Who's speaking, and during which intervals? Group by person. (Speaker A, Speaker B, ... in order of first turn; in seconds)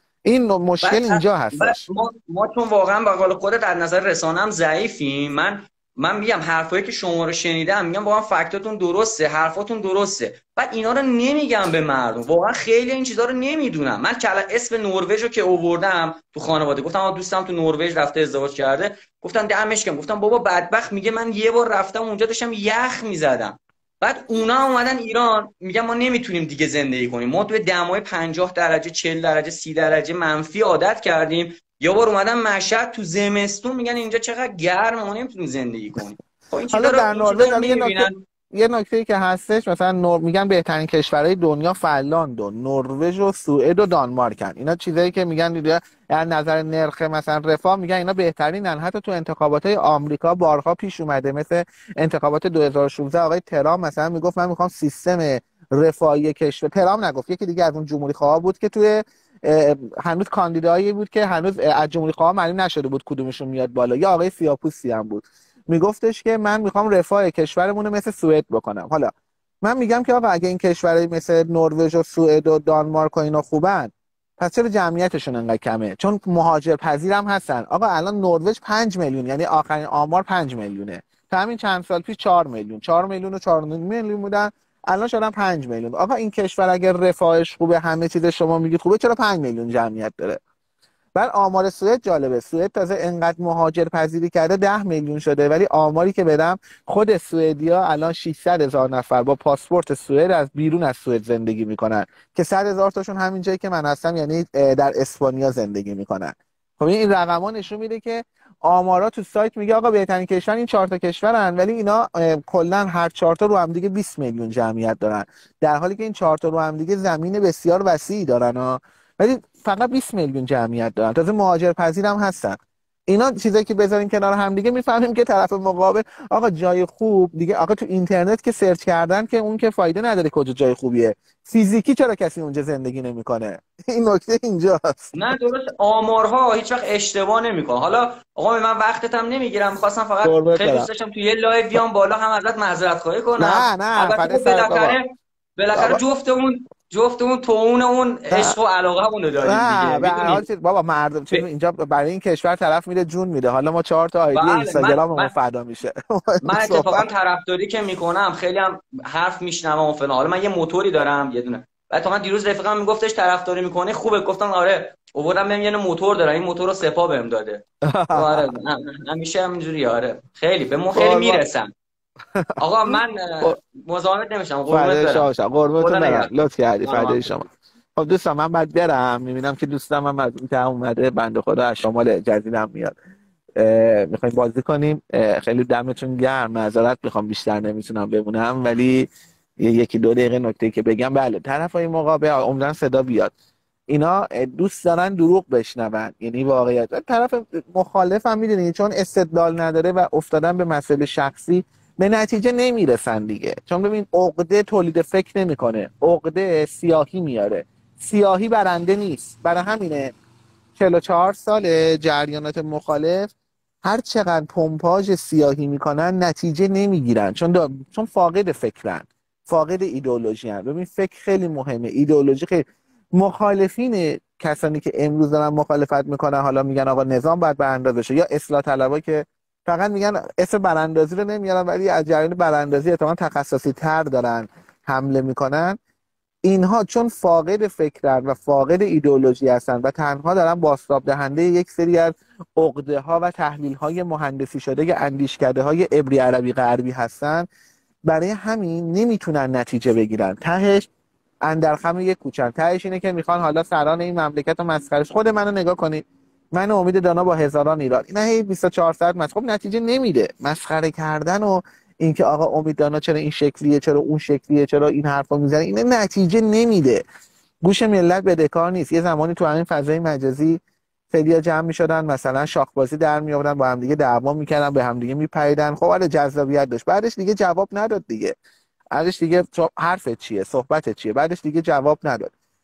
Speaker A: 0.2-1.8, 36.7-69.1, 69.6-90.4, 91.2-122.6, 123.1-135.2, 140.2-140.9, 143.4-145.0, 145.8-146.0, 148.3-148.6, 149.4-157.0, 167.8-168.5, 170.9-171.4, 172.3-173.6, 174.7-183.0, 183.6-189.1, 189.6-193.3, 193.9-210.1, 210.8-213.3, 213.8-222.6, 223.2-235.8, 236.5-247.5, 248.1-250.9, 251.4-267.0, 267.6-270.6, 271.1-278.3, 278.9-282.3
Speaker B: 0.8-38.2, 135.1-145.1, 145.6-150.4, 154.3-155.3, 156.4-171.7, 172.6-175.3, 175.8-176.3, 176.8-177.4